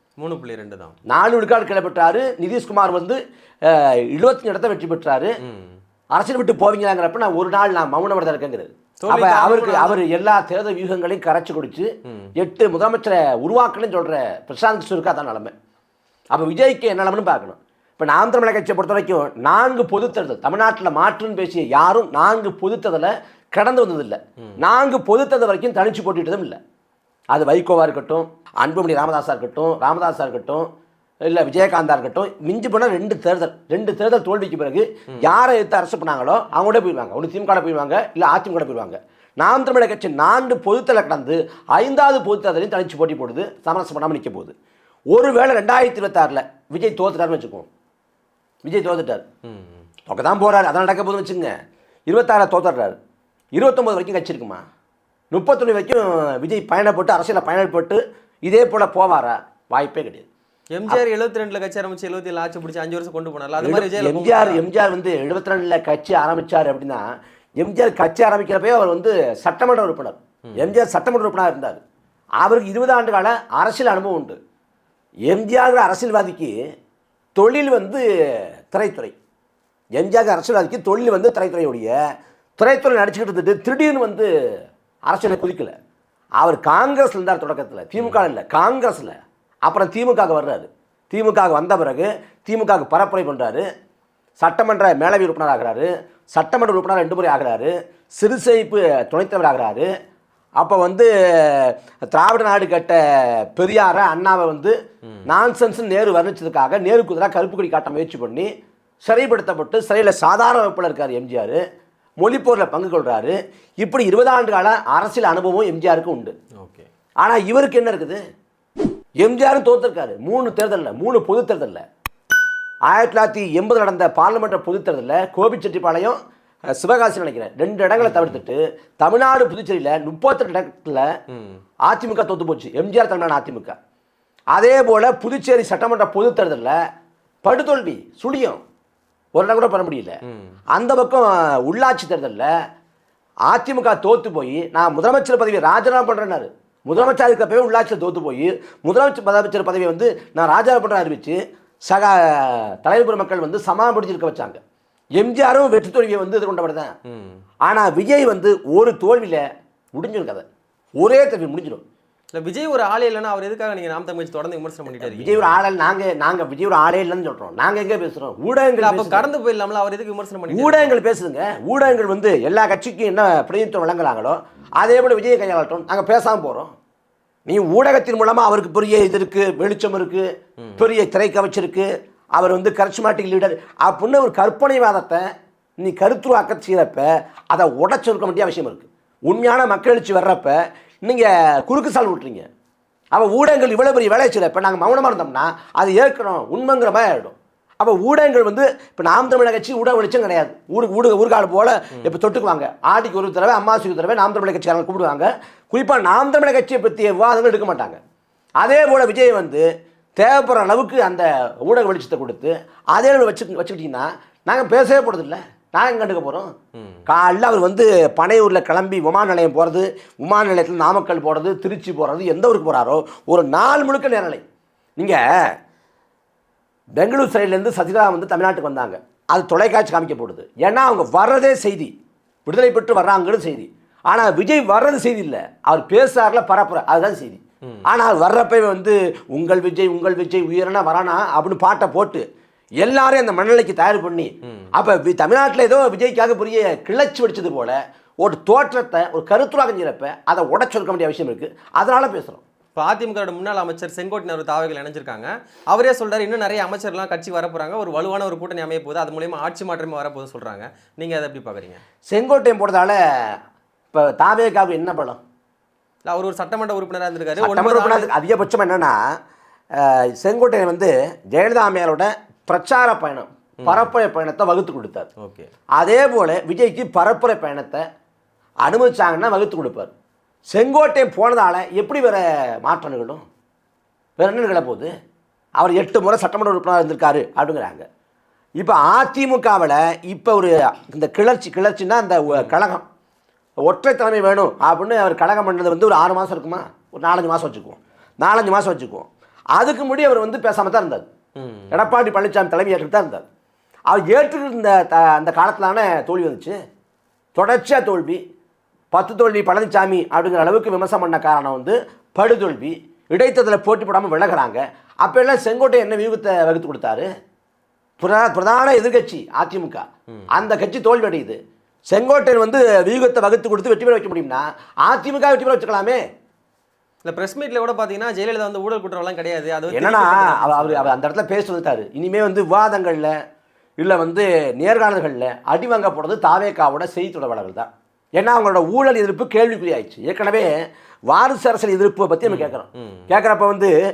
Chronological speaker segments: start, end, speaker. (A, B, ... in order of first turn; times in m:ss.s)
0:00.2-0:01.0 A
0:01.1-0:05.4 B
0:05.4-0:05.8 A
0:06.1-0:15.5 B
0:09.0-0:10.0 A
0:12.1-0:12.3 A
0:16.3-0:26.6 B
0:27.3-0:30.7 B
0:31.2-0:44.5 B
0:45.1-0:47.7 B
0:48.6-0:49.2 B
0:49.4-0:49.8 A
0:50.1-0:51.5 B
0:52.1-0:53.0 B
0:53.5-0:54.6 B
0:55.3-1:00.3 B
1:00.7-1:04.6 A
1:03.6-1:07.1 B
1:07.6-1:11.8 B
1:12.4-1:14.4 B
1:15.3-1:16.6 B
1:17.4-1:19.1 B
1:20.0-1:22.0 B
1:22.6-1:24.3 B
1:25.1-1:25.7 B
1:26.4-1:33.7 B
1:28.0-1:28.2 A
1:34.4-1:39.9 B
1:40.6-1:43.0 B
1:43.5-1:44.8 B
1:45.3-1:48.5 B
1:49.0-1:51.6 B
1:52.2-1:56.3 B
1:56.6-1:56.9 A
1:57.2-1:58.2 B
1:59.2-2:01.8 B
2:02.9-2:06.2 B
2:06.8-2:11.1 B
2:08.0-2:08.4 A
2:11.3-2:11.6 A
2:11.8-2:13.8 B
2:14.5-2:16.8 B
2:17.4-2:18.6 B
2:19.4-2:20.2 B
2:20.2-2:20.6 A
2:20.7-2:22.5 B
2:23.5-2:34.6 B
2:35.2-2:36.9 B
2:37.1-2:37.4 A
2:37.6-2:40.4 B
2:41.0-2:41.8 B
2:42.4-2:45.6 A
2:45.0-2:49.3 B
2:48.8-2:51.0 A
2:50.5-2:56.7 B
2:57.5-3:05.3 B
3:05.8-3:12.5 B
3:13.1-3:28.0 B
3:28.6-3:36.5 B
3:36.8-3:37.0 A
3:37.1-3:44.4 B
3:45.0-3:45.5 B
3:47.0-3:51.9 B
3:52.5-4:02.2 B
4:02.8-4:12.4 B
4:04.4-4:04.7 A
4:12.8-4:21.8 A
4:22.1-4:23.4 B
4:23.9-4:25.2 B
4:26.0-4:28.1 A
4:27.4-4:29.0 B
4:29.8-4:35.1 B
4:33.6-4:33.9 A
4:35.2-4:35.5 A
4:35.8-4:37.8 B
4:38.6-4:39.9 B
4:40.5-4:43.2 B
4:44.2-4:44.9 B
4:45.6-4:47.8 B
4:48.6-4:52.9 B
4:53.6-5:01.1 B
5:01.4-5:01.9 A
5:01.7-5:03.2 B
5:03.9-5:06.6 B
5:07.4-5:08.2 B
5:08.9-5:17.1 B
5:18.0-5:21.4 B
5:21.9-5:26.0 B
5:27.0-5:30.9 A
5:29.7-5:33.2 B
5:33.8-5:40.5 B
5:41.1-5:43.7 B
5:42.2-5:43.1 A